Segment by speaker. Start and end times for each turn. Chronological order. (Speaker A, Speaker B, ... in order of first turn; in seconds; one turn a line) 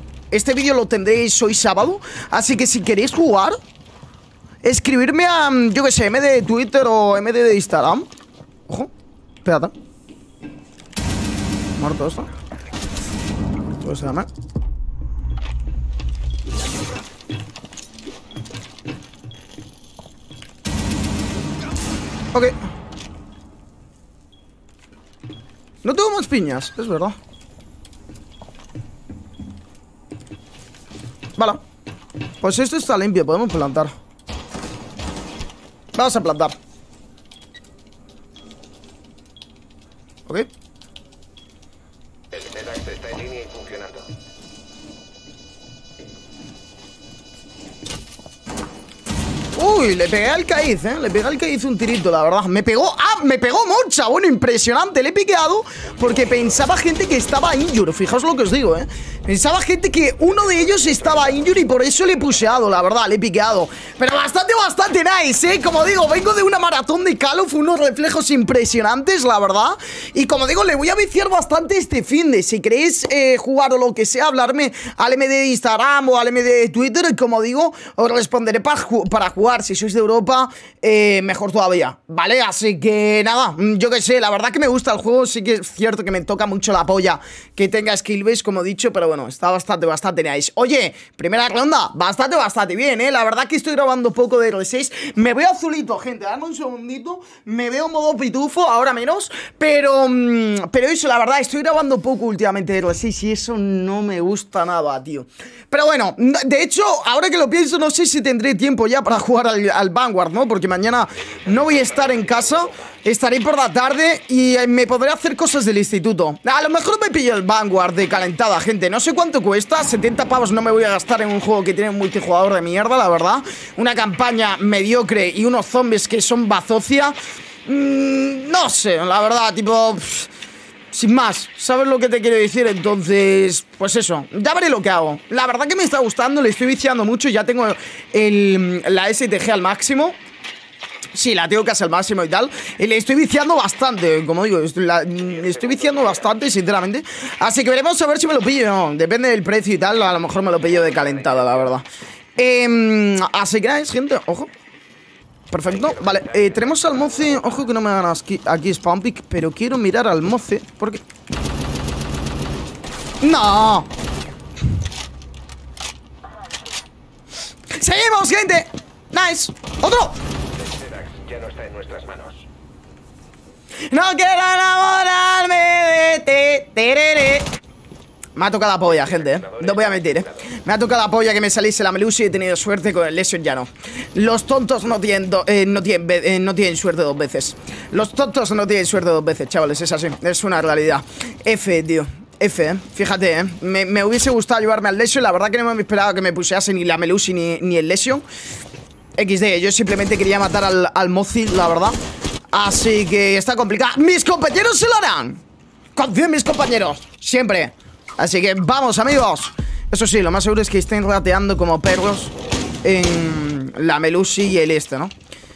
Speaker A: 0.3-3.6
Speaker A: 4.6-8.1
Speaker A: 9.4-9.7
Speaker A: 11.8-12.3
Speaker A: 13.7-14.3
Speaker A: 25.8-27.2
Speaker A: 32.4-33.9
Speaker A: 35.9-36.5
Speaker B: 42.3-44.1
Speaker A: 49.5-130.3
Speaker B: 56.0-56.6
Speaker B: 60.8-61.3
Speaker B: 111.3-112.7
Speaker A: 130.9-140.2
Speaker A: 141.1-151.8
Speaker B: 145.3-146.3
Speaker B: 150.1-151.6
Speaker A: 152.4-154.5
Speaker A: 155.5-161.0
Speaker B: 155.7-157.6
Speaker A: 163.2-163.9
Speaker A: 167.7-170.2
Speaker B: 170.6-172.4
Speaker A: 173.9-177.5
Speaker A: 178.3-198.2
Speaker B: 178.9-180.5
Speaker A: 199.2-202.0
Speaker A: 202.5-205.4
Speaker A: 205.9-215.1